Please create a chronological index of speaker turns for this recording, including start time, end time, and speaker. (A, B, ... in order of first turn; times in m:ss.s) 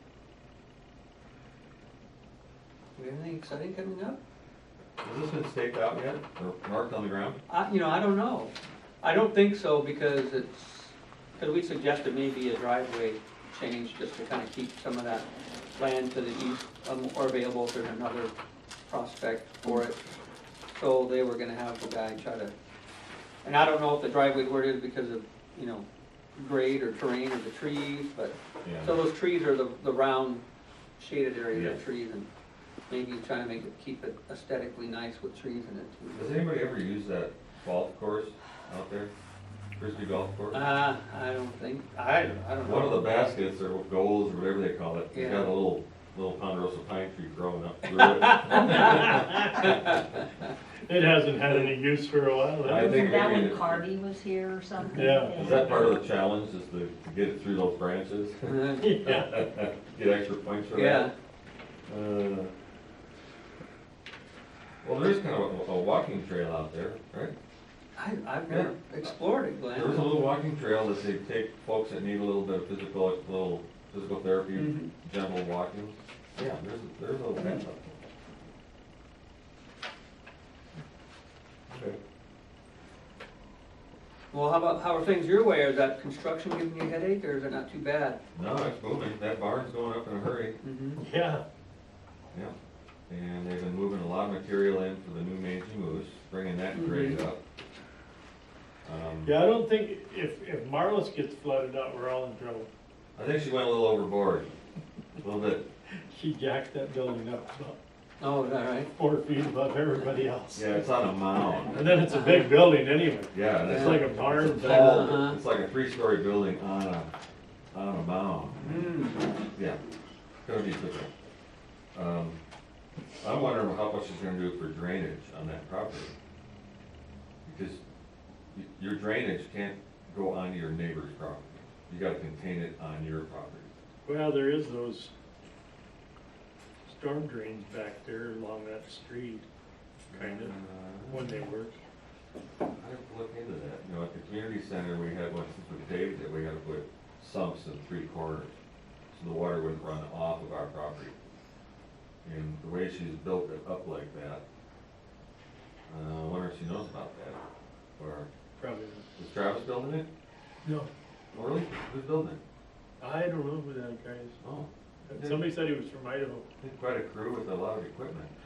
0:03.0-0:04.2 A
0:05.0-0:07.4 B
0:07.5-0:18.3 A
0:18.9-0:20.0 A
0:20.7-0:22.5 A
0:23.4-0:30.4 A
0:28.6-0:29.0 B
0:31.0-0:32.3 A
0:31.5-0:31.8 B
0:32.9-0:36.4 A
0:36.1-0:39.1 B
0:39.8-0:40.7 B
0:40.5-0:43.2 A
0:42.6-0:50.0 B
0:45.1-0:45.6 A
0:47.8-0:50.5 A
0:50.9-0:53.2 C
0:52.6-0:53.8 B
0:52.7-0:56.0 D
0:55.0-0:55.9 C
0:55.3-1:01.1 B
0:58.5-0:58.9 A
0:58.8-0:59.3 C
1:00.7-1:01.1 A
1:01.9-1:02.5 B
1:04.8-1:07.3 B
1:08.0-1:10.2 A
1:08.5-1:09.1 B
1:09.7-1:17.8 B
1:14.5-1:14.9 A
1:21.7-1:22.0 B
1:24.3-1:28.2 A
1:28.3-1:30.6 B
1:30.6-1:31.0 A
1:31.0-1:31.4 C
1:33.1-1:37.4 B
1:36.7-1:37.3 A
1:38.8-1:39.4 B
1:39.2-1:42.7 C
1:43.2-1:44.5 B
1:45.2-1:45.7 B
1:46.1-1:47.8 C
1:48.2-1:48.9 A
1:49.0-1:50.6 C
1:50.6-1:51.9 B
1:51.7-1:53.3 C
1:52.1-1:52.5 A
1:53.3-1:57.1 B
1:53.6-1:54.1 A
1:53.9-1:54.9 C
1:54.6-1:55.4 A
1:57.7-1:58.9 B
1:58.6-1:59.4 A
2:00.4-2:01.1 B
2:01.9-2:02.4 B
2:03.2-2:06.1 B
2:07.5-2:07.8 B
2:08.5-2:13.7 B
2:14.1-2:15.1 C
2:16.9-2:19.5 C
2:20.1-2:21.4 B
2:20.2-2:20.5 C
2:21.1-2:21.8 C
2:22.8-2:28.5 B
2:29.1-2:31.2 B
2:32.2-2:34.4 B
2:35.9-2:37.4 B
2:38.0-2:38.3 B
2:38.6-2:39.1 C
2:39.2-2:40.1 B
2:41.3-2:42.4 B
2:43.0-2:44.4 C
2:44.4-2:45.5 B
2:45.1-2:46.4 C
2:46.6-2:48.3 B